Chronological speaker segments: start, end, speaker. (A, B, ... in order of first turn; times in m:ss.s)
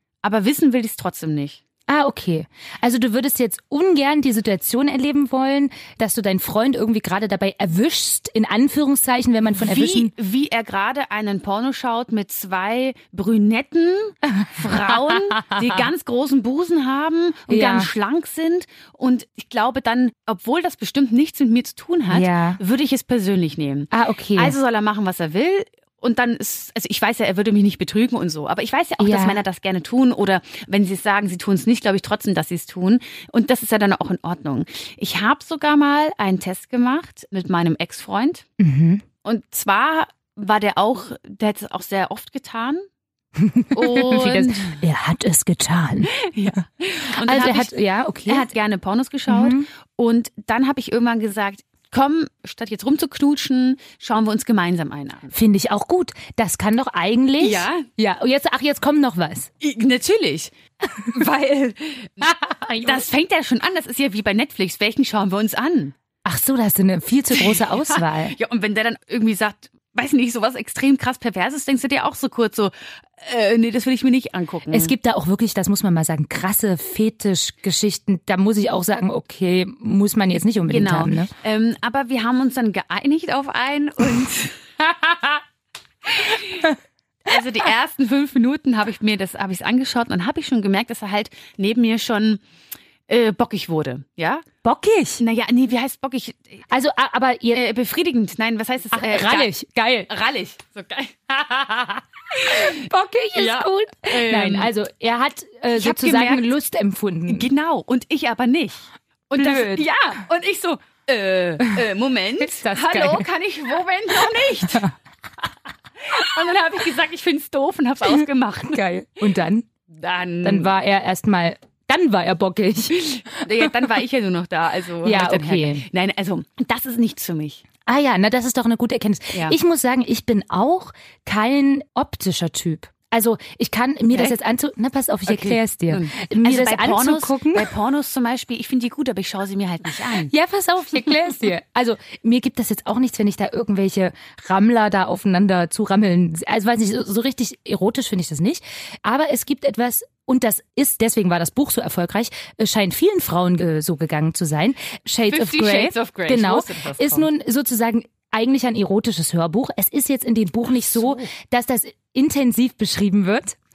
0:00.2-0:01.6 A
0:01.9-0:10.1 B
0:09.6-0:38.4 A
0:15.4-0:15.9 B
0:17.5-0:17.9 B
0:22.1-0:22.6 B
0:23.9-0:24.6 B
0:29.0-0:29.4 B
0:38.6-0:39.0 B
0:39.2-0:42.8 A
0:43.4-0:46.5 B
0:43.7-0:44.8 A
0:46.1-0:47.7 A
0:47.2-0:48.5 B
0:48.3-0:55.3 A
0:49.3-0:49.7 B
0:55.3-0:59.5 B
0:57.4-0:57.9 A
0:59.6-1:05.9 A
1:02.5-1:03.0 B
1:06.2-1:08.4 B
1:07.3-1:14.9 A
1:14.7-1:21.3 B
1:20.7-1:24.7 A
1:26.1-1:26.7 A
1:27.3-1:32.4 A
1:33.1-1:34.5 A
1:34.6-1:35.2 B
1:35.2-1:36.6 A
1:36.7-1:37.6 B
1:37.5-1:39.5 A
1:38.9-1:40.1 B
1:40.1-1:41.2 A
1:41.3-1:47.5 B
1:42.3-1:42.8 A
1:43.4-1:44.7 A
1:45.8-1:46.5 A
1:47.3-1:54.9 A
1:49.4-1:49.8 B
1:52.4-1:53.3 B
1:56.0-1:58.8 A
1:58.0-1:59.7 B
2:00.0-2:00.7 A
2:00.4-2:03.7 B
2:03.2-2:07.6 A
2:05.0-2:05.9 B
2:07.9-2:17.7 B
2:15.3-2:20.3 A
2:20.2-2:43.6 B
2:35.3-2:37.3 A
2:40.9-2:41.3 A